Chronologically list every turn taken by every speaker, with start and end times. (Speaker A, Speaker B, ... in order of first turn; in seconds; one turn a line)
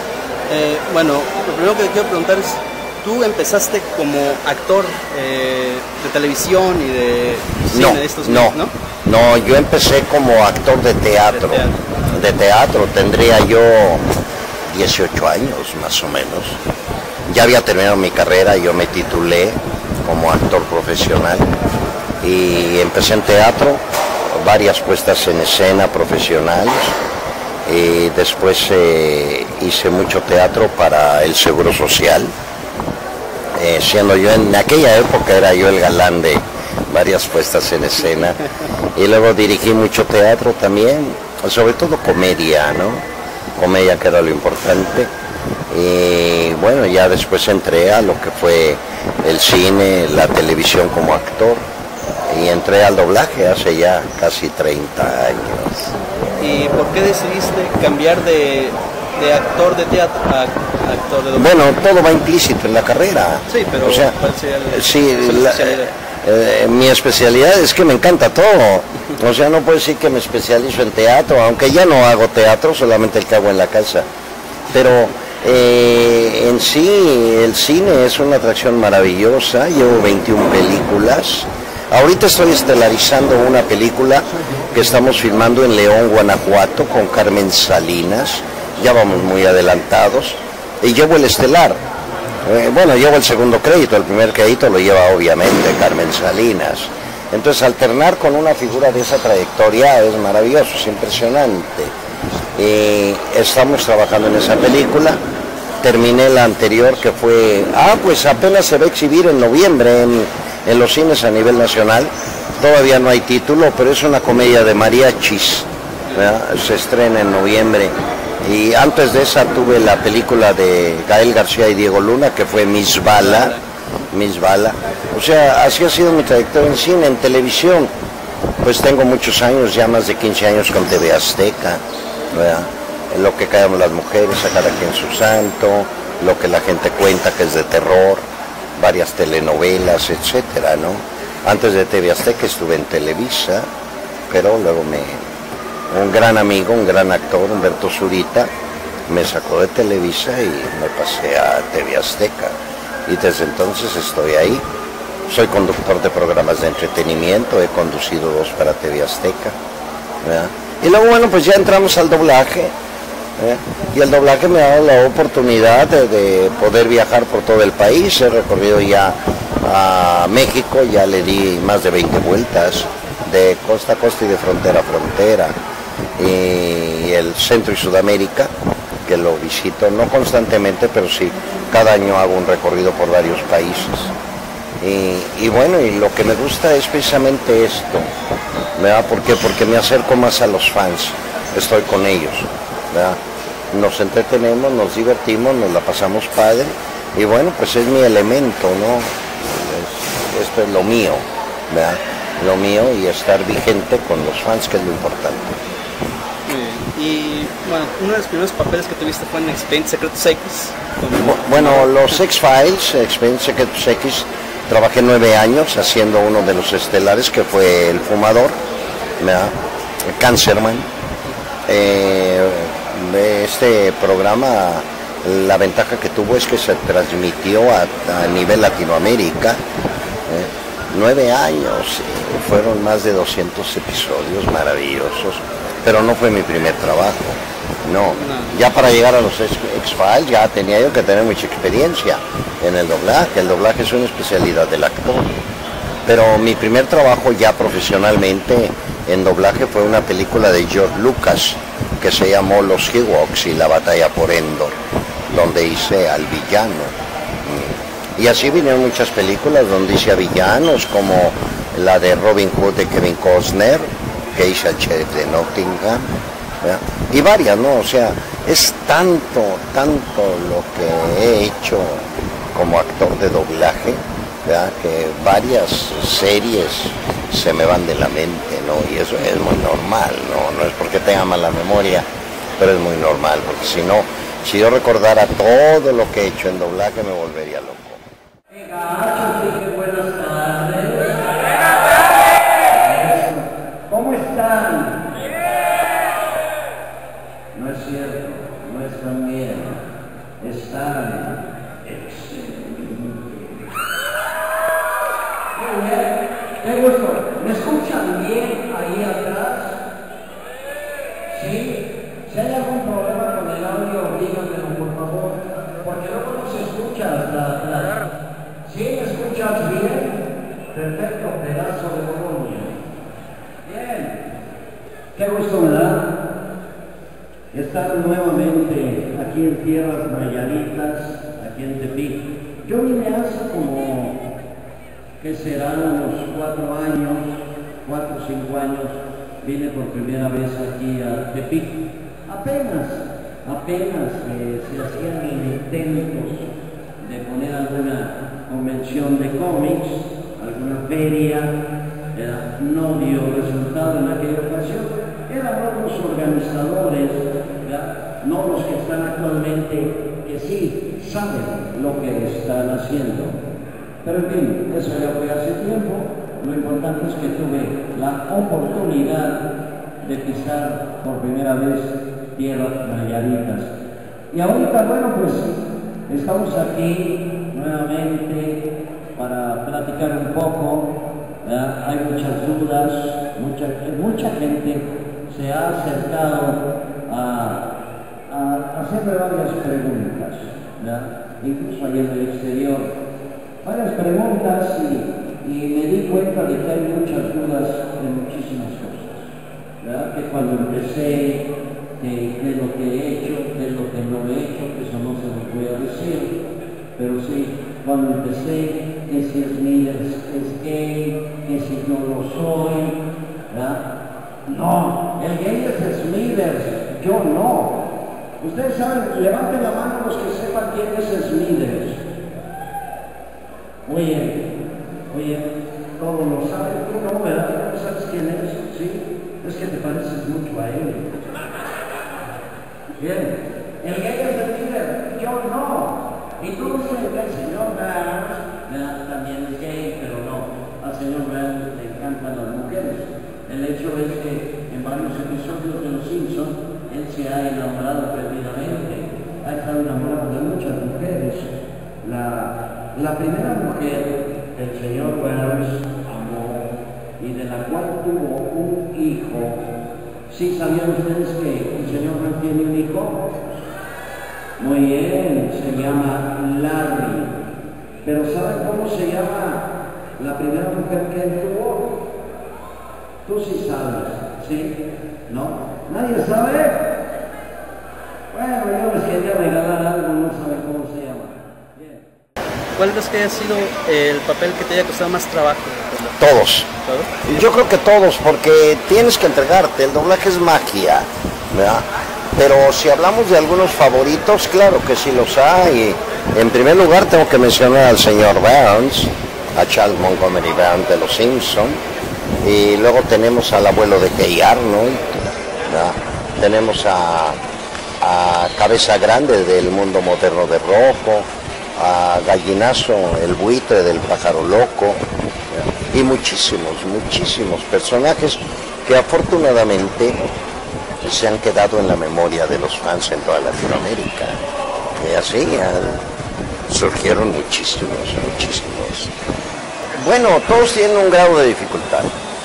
Speaker A: 0.5-8.7
Speaker B: 7.7-14.1
Speaker A: 11.3-12.2
Speaker B: 14.7-16.6
Speaker B: 17.3-21.5
Speaker B: 22.2-27.0
Speaker B: 27.6-32.4
Speaker B: 33.5-38.4
Speaker B: 39.0-45.1
Speaker B: 45.7-51.7
Speaker B: 52.3-55.9
Speaker A: 56.4-61.7
Speaker B: 61.3-64.2
Speaker A: 63.5-65.9
Speaker B: 64.7-74.1
Speaker B: 74.7-91.8
Speaker B: 92.4-101.9
Speaker B: 102.5-105.2
Speaker B: 105.8-123.6
Speaker A: 123.2-123.6
Speaker B: 124.1-127.9
Speaker B: 128.6-143.7
Speaker B: 144.3-145.3
Speaker B: 145.9-148.5
Speaker B: 149.1-154.7
Speaker B: 155.3-159.6
Speaker B: 160.2-162.8
Speaker B: 163.4-175.6
Speaker B: 176.2-178.5
Speaker B: 179.1-184.1
Speaker B: 184.8-188.1
Speaker B: 188.8-193.2
Speaker B: 193.7-205.6
Speaker A: 206.5-212.2
Speaker B: 211.1-218.6
Speaker B: 219.2-220.9
Speaker B: 221.7-229.6
Speaker B: 230.3-245.3
Speaker A: 238.2-238.6
Speaker B: 246.1-254.8
Speaker B: 255.3-288.0
Speaker C: 288.5-291.4
Speaker C: 292.6-295.1
Speaker C: 297.5-299.8
Speaker C: 300.4-303.7
Speaker C: 305.6-309.8
Speaker C: 311.3-318.1
Speaker C: 318.6-322.8
Speaker C: 323.6-324.3
Speaker C: 325.2-326.1
Speaker C: 327.5-334.2
Speaker C: 335.2-346.5
Speaker C: 347.0-351.5
Speaker C: 352.1-363.4
Speaker C: 364.0-369.4
Speaker C: 370.0-373.7
Speaker C: 374.3-378.6
Speaker C: 379.2-387.7
Speaker C: 388.3-392.9
Speaker C: 393.6-401.5
Speaker C: 402.0-406.3
Speaker C: 407.0-413.0
Speaker C: 413.5-413.8
Speaker C: 414.5-417.8
Speaker C: 418.4-422.0
Speaker C: 423.9-424.5
Speaker C: 425.1-431.3
Speaker C: 433.0-459.6
Speaker C: 460.3-463.6
Speaker C: 464.6-467.4
Speaker C: 468.0-471.9
Speaker C: 473.3-474.8
Speaker C: 475.3-476.9
Speaker C: 478.3-482.0
Speaker A: 482.8-486.2
Speaker B: 486.2-486.7
Speaker A: 486.8-487.1
Speaker B: 487.2-501.8
Speaker B: 502.4-507.4
Speaker B: 508.0-520.2
Speaker B: 521.0-524.4
Speaker B: 525.0-526.0
Speaker B: 526.7-529.1
Speaker B: 530.0-532.1